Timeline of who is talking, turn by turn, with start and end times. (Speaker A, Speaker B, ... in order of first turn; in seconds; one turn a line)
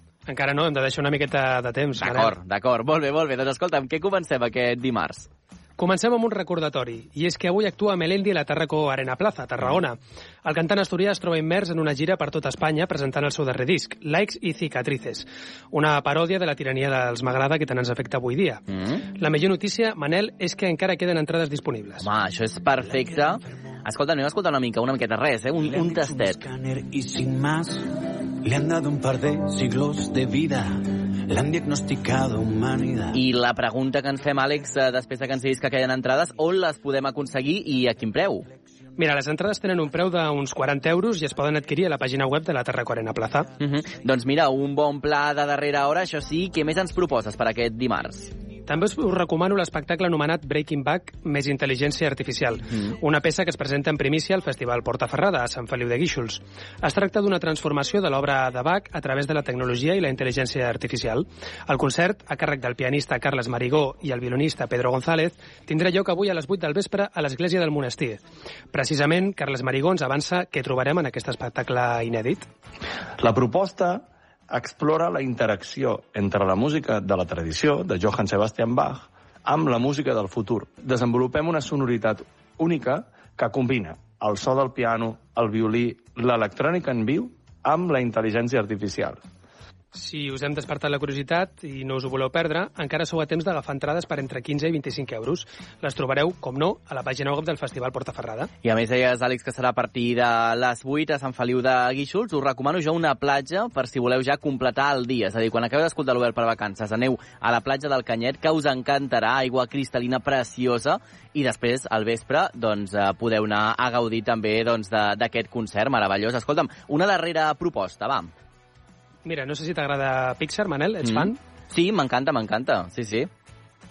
Speaker A: 0.3-2.3
Speaker B: 2.0-5.3
Speaker A: 5.8-22.1
Speaker B: 22.0-26.4
Speaker C: 25.7-27.8
Speaker C: 28.4-33.2
Speaker B: 33.1-38.5
Speaker A: 39.0-43.5
Speaker B: 43.6-48.3
Speaker A: 48.7-68.2
Speaker A: 68.7-72.5
Speaker D: 73.2-89.2
Speaker A: 89.9-98.5
Speaker B: 98.6-118.3
Speaker A: 119.2-121.4
Speaker B: 121.0-123.3